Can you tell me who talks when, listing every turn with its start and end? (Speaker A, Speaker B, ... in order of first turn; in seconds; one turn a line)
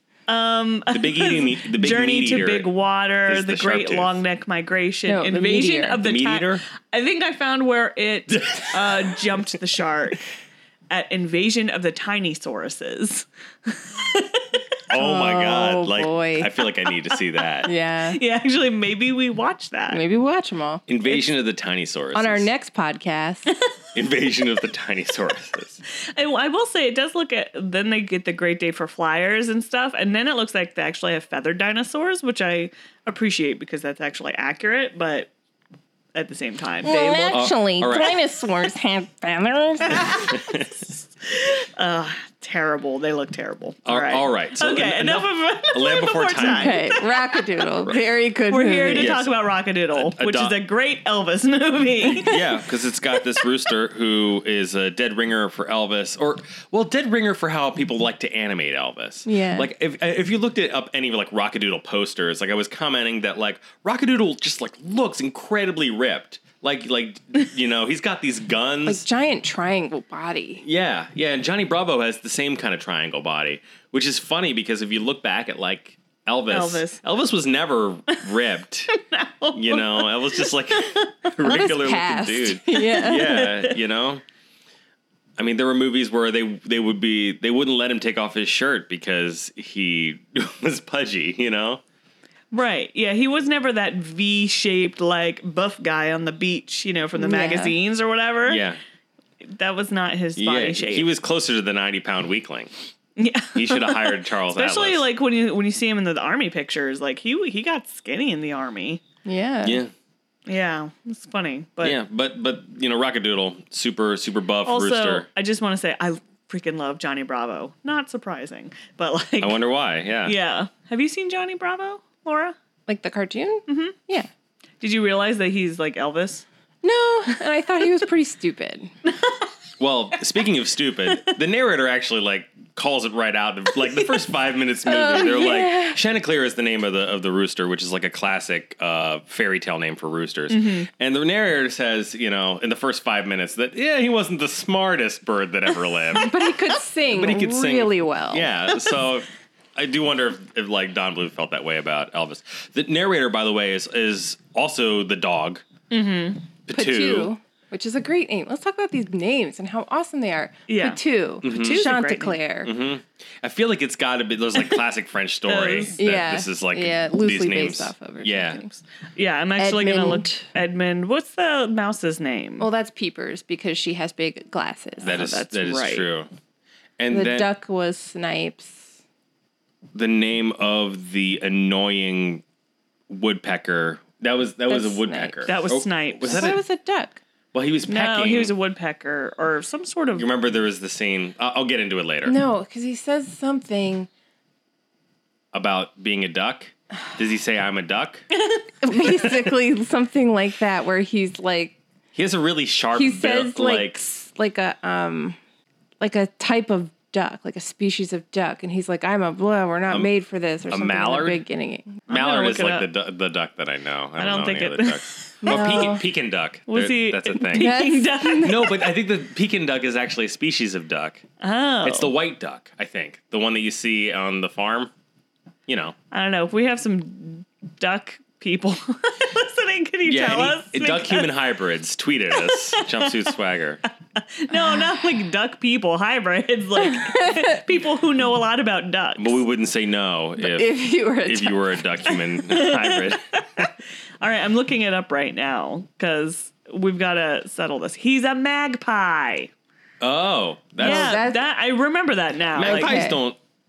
Speaker A: 0.3-10.2
Speaker B: 0.9-2.7
Speaker B: 3.2-4.2
Speaker C: 5.1-6.0
Speaker B: 6.0-6.6
Speaker B: 8.3-9.1
Speaker A: 10.9-14.4
Speaker B: 14.9-17.7
Speaker C: 14.9-16.5
Speaker C: 17.6-18.2
Speaker A: 17.6-20.0
Speaker C: 19.9-20.8
Speaker B: 20.9-22.5
Speaker C: 22.1-23.5
Speaker B: 23.9-25.8
Speaker A: 26.0-35.3
Speaker A: 36.1-37.0
Speaker C: 36.8-40.4
Speaker B: 36.8-38.2
Speaker B: 40.1-40.8
Speaker A: 41.2-47.5
Speaker B: 43.9-46.9
Speaker C: 46.4-49.1
Speaker A: 48.5-52.4
Speaker B: 48.9-49.3
Speaker B: 49.9-50.5
Speaker B: 52.2-69.0
Speaker C: 59.2-59.7
Speaker C: 68.8-70.6
Speaker B: 70.6-78.9
Speaker A: 76.5-77.0
Speaker A: 78.9-81.3
Speaker B: 79.5-84.2
Speaker C: 81.4-83.5
Speaker A: 82.7-83.8
Speaker B: 85.4-91.8
Speaker A: 92.5-98.6
Speaker C: 97.2-97.7
Speaker B: 98.5-98.8
Speaker A: 99.4-101.1
Speaker B: 100.4-102.7
Speaker A: 103.2-109.0
Speaker B: 103.5-105.0
Speaker C: 109.2-109.8
Speaker B: 109.6-109.9
Speaker A: 110.5-112.0
Speaker B: 111.8-115.2
Speaker A: 114.7-119.6
Speaker B: 119.4-120.3
Speaker A: 120.2-122.5
Speaker C: 122.9-124.3
Speaker A: 123.7-124.0
Speaker A: 124.8-126.4
Speaker C: 126.8-128.9
Speaker A: 129.1-129.4
Speaker B: 129.8-146.4
Speaker C: 134.8-136.0
Speaker A: 140.5-140.9
Speaker C: 146.1-148.5
Speaker B: 147.1-155.6
Speaker A: 155.9-156.4
Speaker B: 156.7-157.3
Speaker C: 156.7-162.7
Speaker A: 160.7-162.4
Speaker B: 161.4-161.9
Speaker B: 162.6-168.6
Speaker A: 165.4-166.0
Speaker C: 166.0-168.7
Speaker A: 169.1-172.7
Speaker C: 169.6-170.5
Speaker C: 172.6-175.2
Speaker B: 175.0-176.3
Speaker A: 175.0-176.1
Speaker B: 177.0-177.5
Speaker C: 177.1-178.9
Speaker B: 179.9-182.4
Speaker B: 183.1-186.6
Speaker C: 184.7-185.5
Speaker A: 185.4-186.5
Speaker C: 186.2-187.2
Speaker B: 187.5-188.5
Speaker A: 187.9-190.3
Speaker B: 190.2-192.4
Speaker C: 192.2-194.1
Speaker B: 195.5-198.3
Speaker C: 198.8-201.8
Speaker B: 202.1-204.0
Speaker C: 202.9-205.4
Speaker C: 206.0-212.0
Speaker B: 210.7-211.4
Speaker A: 212.1-212.9
Speaker B: 212.1-217.8
Speaker A: 214.2-215.9
Speaker C: 215.4-216.0
Speaker A: 216.7-218.7
Speaker C: 217.5-218.8
Speaker B: 218.3-221.2
Speaker A: 221.4-222.1
Speaker B: 221.8-224.9
Speaker B: 225.7-225.9
Speaker A: 226.1-231.3
Speaker B: 230.1-233.8
Speaker A: 232.3-233.3
Speaker A: 234.2-239.4
Speaker C: 234.6-234.9
Speaker C: 236.8-237.3
Speaker B: 239.2-243.7
Speaker C: 240.4-241.8
Speaker A: 242.3-249.5
Speaker B: 250.0-251.2
Speaker C: 250.8-251.4
Speaker A: 250.8-253.0
Speaker B: 252.5-253.4
Speaker C: 252.6-253.2